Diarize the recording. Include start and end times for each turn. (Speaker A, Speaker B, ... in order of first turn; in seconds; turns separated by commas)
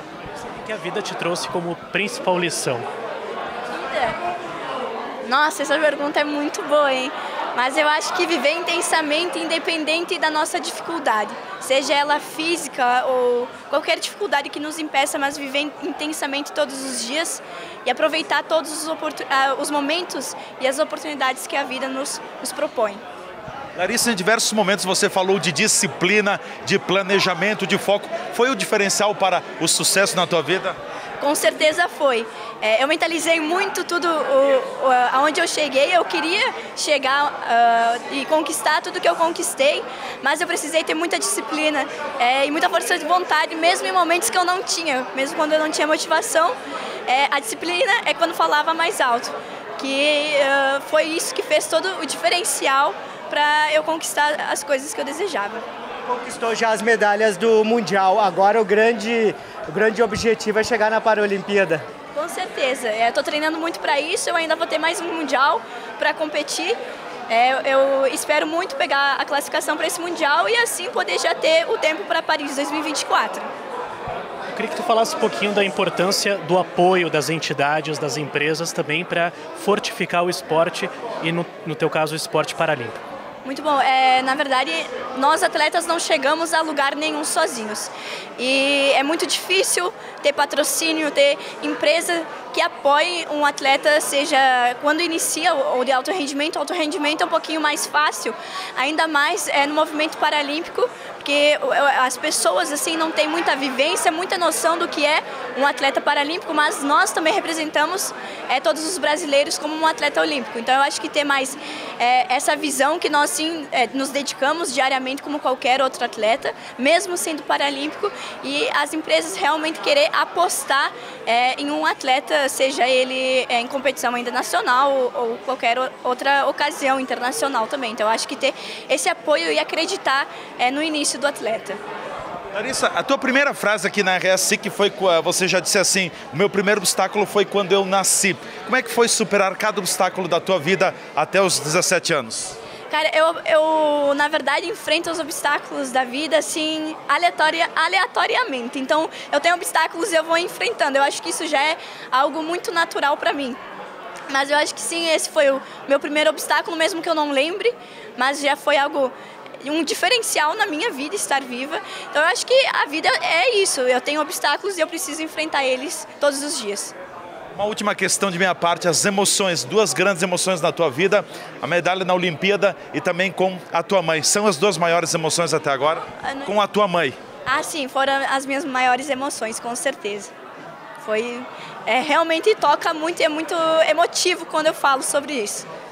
Speaker A: 0.4-2.9, Speaker B: 3.7-4.2, Speaker B: 5.2-23.0, Speaker C: 23.8-30.8, Speaker B: 31.2-55.6, Speaker D: 56.1-61.8, Speaker B: 62.1-73.5, Speaker A: 74.5-83.0, Speaker B: 83.4-131.8, Speaker C: 132.5-142.6, Speaker B: 142.9-153.6, Speaker B: 154.3-166.9, Speaker C: 167.6-177.2, Speaker B: 176.2-176.5, Speaker B: 177.5-180.3, Speaker B: 181.0-185.7